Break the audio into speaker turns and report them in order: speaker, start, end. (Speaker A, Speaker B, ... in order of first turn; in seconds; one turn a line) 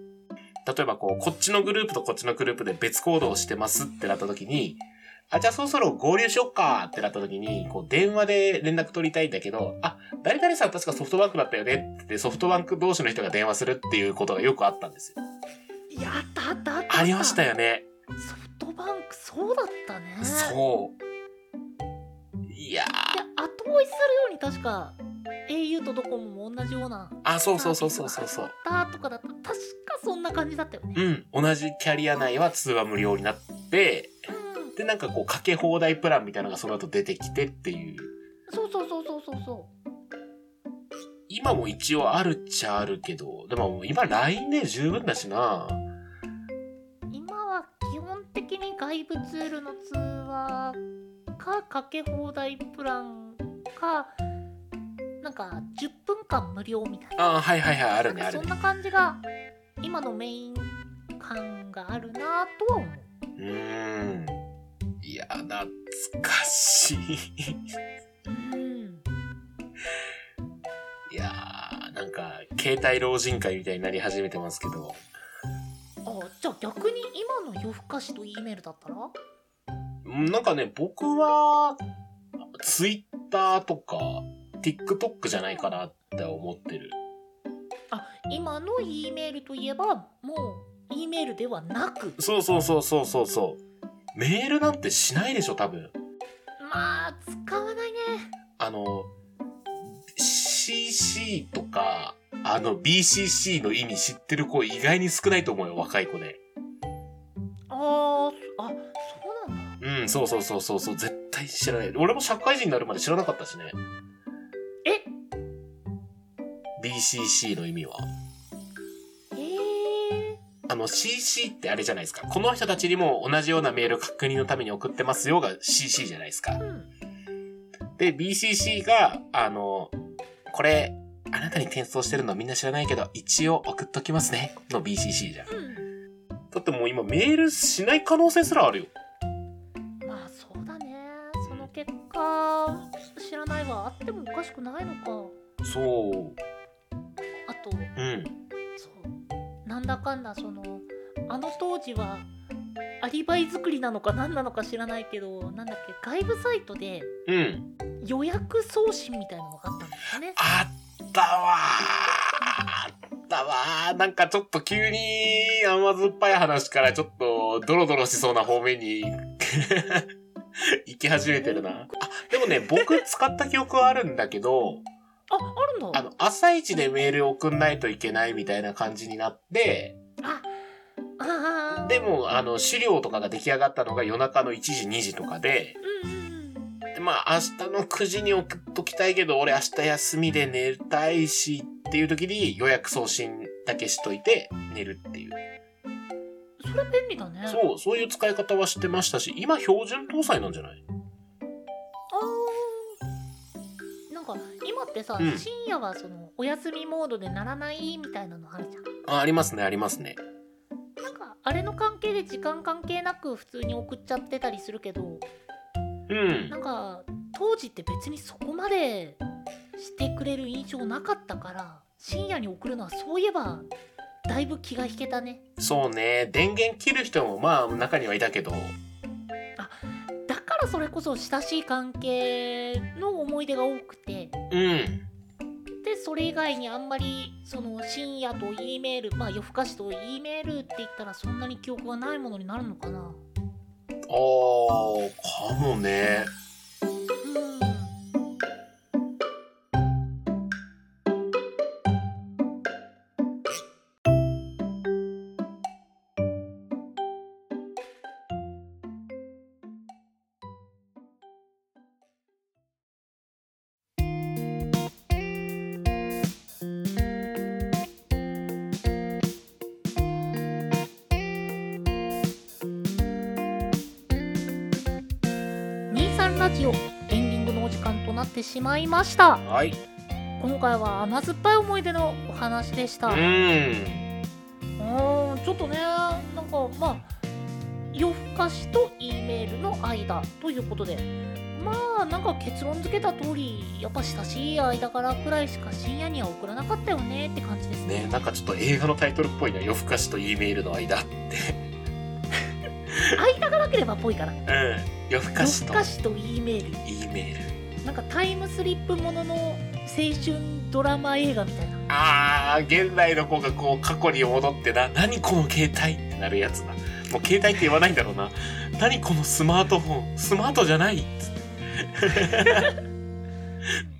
Speaker A: 0.6-15.2
Speaker B: 15.9-17.4
Speaker A: 16.9-17.9
Speaker B: 18.1-20.6
Speaker A: 20.2-21.0
Speaker A: 22.5-23.2
Speaker B: 23.1-31.0
Speaker A: 27.2-28.5
Speaker A: 30.9-34.1
Speaker B: 34.3-34.7
Speaker A: 34.8-38.1
Speaker B: 38.5-39.7
Speaker A: 41.3-45.8
Speaker B: 47.1-50.8
Speaker B: 51.4-54.1
Speaker B: 55.2-57.2
Speaker A: 57.2-58.5
Speaker B: 58.1-59.2
Speaker B: 59.8-63.1
Speaker A: 63.4-64.4
Speaker A: 65.0-67.6
Speaker B: 68.2-69.0
Speaker A: 71.1-75.0
Speaker B: 76.0-79.1
Speaker A: 80.0-81.8
Speaker A: 82.6-87.0
Speaker B: 87.9-92.2
Speaker A: 92.2-93.6
Speaker A: 94.1-95.9
Speaker B: 96.6-98.3
Speaker A: 98.6-99.1
Speaker A: 100.1-106.4
Speaker B: 107.7-109.8
Speaker A: 109.8-113.8
Speaker B: 114.8-115.1
Speaker A: 116.8-118.0
Speaker B: 119.3-120.4
Speaker A: 120.7-126.6
Speaker B: 126.6-126.9
Speaker A: 128.0-129.9
Speaker A: 130.5-135.5
Speaker B: 135.5-135.9
Speaker A: 136.5-138.9
Speaker B: 140.0-145.3
Speaker A: 141.4-141.7
Speaker A: 145.6-146.4
Speaker B: 147.5-147.9
Speaker A: 147.9-148.3
Speaker B: 148.8-149.1
Speaker B: 149.6-152.3
Speaker B: 153.0-157.1
Speaker A: 157.3-157.7
Speaker B: 158.0-160.4
Speaker A: 160.4-170.1
Speaker A: 170.8-174.8
Speaker B: 171.4-173.0
Speaker B: 175.3-176.0
Speaker A: 175.9-179.9
Speaker B: 180.2-180.5
Speaker B: 181.2-182.0
Speaker A: 181.8-185.8
Speaker B: 185.8-186.7
Speaker A: 186.9-195.4
Speaker B: 196.6-197.6
Speaker A: 197.5-200.8
Speaker B: 202.1-203.0
Speaker B: 204.1-208.8
Speaker A: 205.2-205.4
Speaker A: 209.1-210.2
Speaker B: 211.0-215.2
Speaker A: 216.1-216.5
Speaker B: 216.5-219.2
Speaker B: 219.8-223.7
Speaker B: 224.3-225.4
Speaker A: 225.6-228.8
Speaker B: 229.6-234.3
Speaker A: 234.5-235.1
Speaker B: 235.8-243.2
Speaker A: 244.1-246.3
Speaker B: 247.2-247.9
Speaker B: 275.9-279.4
Speaker A: 279.4-279.8
Speaker B: 280.4-283.2
Speaker A: 283.1-284.1
Speaker B: 284.8-287.1
Speaker B: 287.9-298.2
Speaker A: 297.8-301.6
Speaker B: 303.1-304.4
Speaker A: 304.4-305.9
Speaker B: 305.4-306.8
Speaker A: 306.8-307.5
Speaker B: 307.8-311.8
Speaker A: 311.9-321.4
Speaker A: 322.0-322.7
Speaker B: 322.4-322.7